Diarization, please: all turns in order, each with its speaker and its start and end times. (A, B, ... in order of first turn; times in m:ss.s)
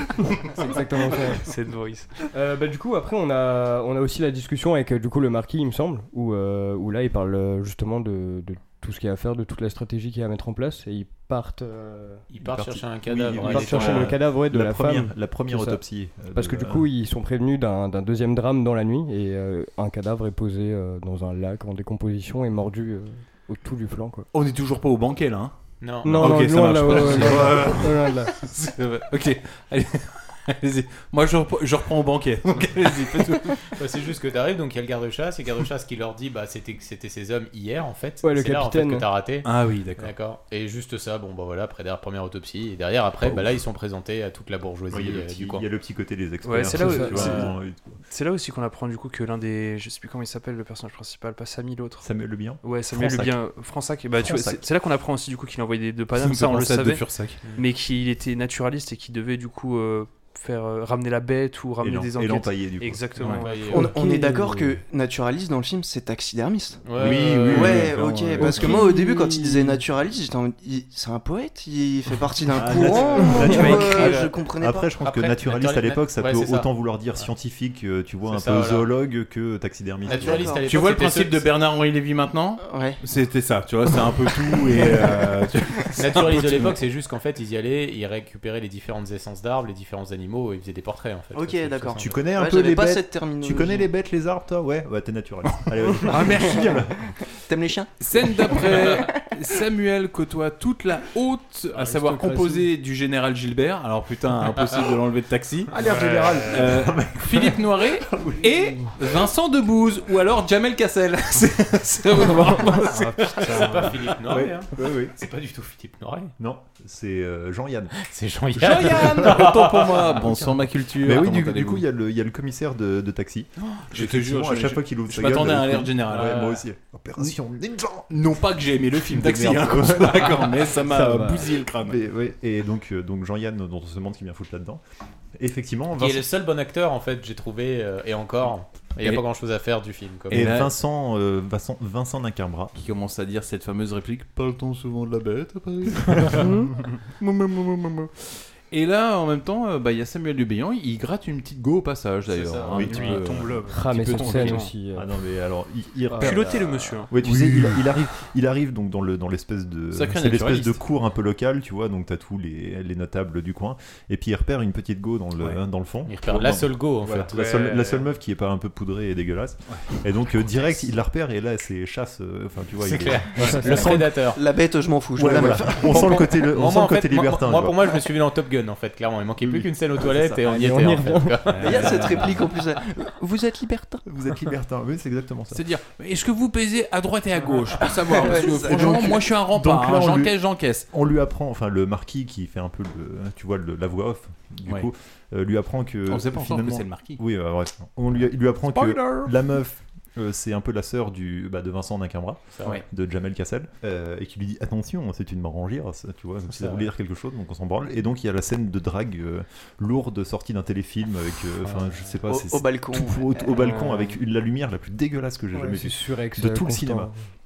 0:00.5-0:01.4 A
0:01.4-0:02.1 B
0:02.3-0:12.2 A
0:12.3-0:14.1 C
0:12.4-0:16.9 D
0:13.4-0:15.8 A
0:16.3-0:24.3 A
0:24.3-0:33.6 E
0:25.8-0:26.4 C
0:26.0-0:28.3 A
0:26.9-0:27.5 C
0:33.6-0:45.6 C
0:38.2-0:39.0 A
0:39.4-0:40.1 E
0:43.2-0:43.5 D
0:44.9-0:48.0 D
0:46.4-0:47.5 B
0:46.7-0:47.4 A
0:48.1-0:52.0 B
0:52.0-0:53.4 D
0:52.6-1:03.9 B
0:54.1-0:54.6 D
0:56.1-0:57.4 E
1:01.8-1:03.4 D
1:03.2-1:03.9 C
1:03.7-1:14.9 F
1:03.7-1:04.8 A
1:06.8-1:07.9 C
1:07.0-1:08.8 D
1:07.0-1:08.9 E
1:08.4-1:09.8 A
1:12.5-1:20.6 D
1:12.6-1:14.2 E
1:13.2-1:13.6 A
1:15.0-1:17.3 C
1:18.2-1:18.9 C
1:20.0-1:20.6 F
1:20.0-1:21.5 C
1:20.6-1:26.8 E
1:22.6-1:23.0 F
1:26.0-1:32.2 C
1:31.3-1:33.9 F
1:32.0-1:37.1 D
1:36.0-1:36.8 E
1:37.5-1:39.2 F
1:38.0-1:53.7 E
1:41.7-1:42.7 A
1:45.7-1:46.9 B
1:45.9-1:47.6 D
1:48.1-1:48.5 D
1:52.4-1:54.0 B
1:53.2-1:56.3 C
1:54.3-1:55.1 D
1:56.4-1:58.0 D
1:58.0-2:00.4 C
1:58.6-2:01.8 E
1:58.6-1:59.5 D
2:01.0-2:08.1 D
2:03.6-2:06.5 E
2:06.1-2:06.6 C
2:08.1-2:12.0 E
2:09.1-2:11.2 D
2:11.0-2:11.4 A
2:11.8-2:14.8 D
2:15.4-2:16.2 D
2:16.0-2:20.5 C
2:20.3-2:20.7 E
2:20.3-2:22.7 D
2:22.7-2:28.1 E
2:26.4-2:26.7 A
2:28.7-2:34.7 E
2:32.4-2:32.7 C
2:32.6-2:34.7 B
2:32.7-2:33.3 D
2:33.7-2:35.0 A
2:34.9-2:54.0 D
2:36.1-2:37.1 B
2:37.2-2:37.8 E
2:39.9-2:40.8 E
2:46.1-2:47.8 C
2:47.3-2:48.0 B
2:52.8-2:54.4 C
2:53.4-2:54.0 A
2:54.3-2:56.4 F
2:55.2-2:58.0 D
2:55.8-3:02.3 C
3:00.4-3:01.4 A
3:01.5-3:02.5 E
3:01.6-3:04.0 F
3:04.0-3:05.6 D
3:05.5-3:10.8 E
3:08.1-3:09.3 F
3:08.6-3:10.4 D
3:10.9-3:37.1 D
3:16.1-3:17.2 E
3:18.7-3:19.3 E
3:22.5-3:22.8 C
3:26.5-3:26.9 C
3:31.6-3:32.1 C
3:32.3-3:33.5 F
3:33.6-3:34.1 B
3:35.5-3:37.2 A